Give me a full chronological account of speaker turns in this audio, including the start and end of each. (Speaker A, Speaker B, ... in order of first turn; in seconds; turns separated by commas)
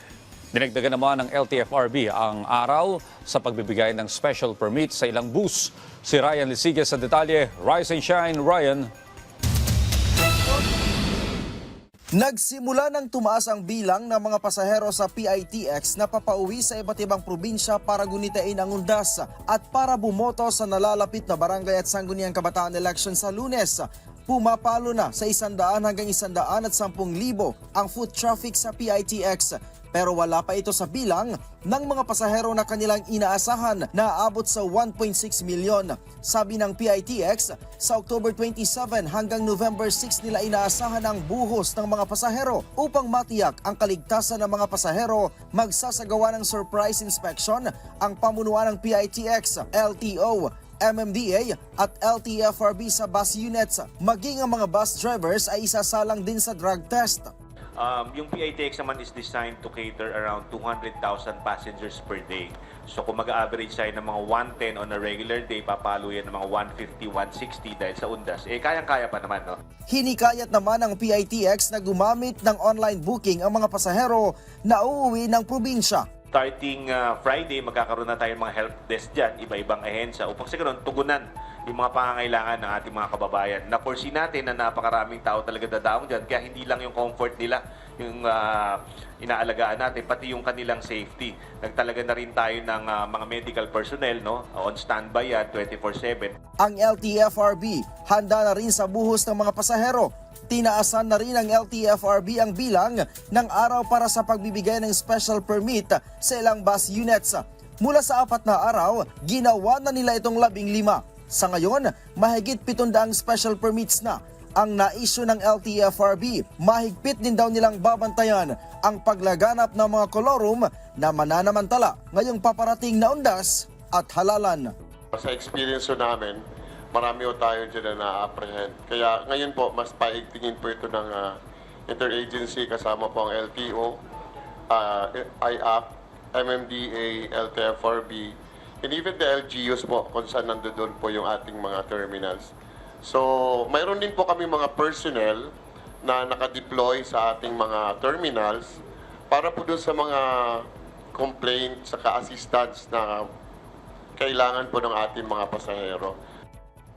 Speaker A: 0.5-8.9, Speaker B: 12.2-57.3, Speaker C: 57.8-69.6, Speaker B: 69.9-76.1, Speaker C: 76.3-96.3, Speaker B: 96.6-124.7, Speaker D: 125.1-126.4, Speaker D: 126.9-131.3, Speaker D: 131.9-133.9, Speaker D: 134.7-142.5, Speaker D: 143.0-145.4, Speaker D: 146.0-148.7, Speaker D: 149.3-150.3, Speaker D: 151.1-153.2, Speaker D: 154.2-156.1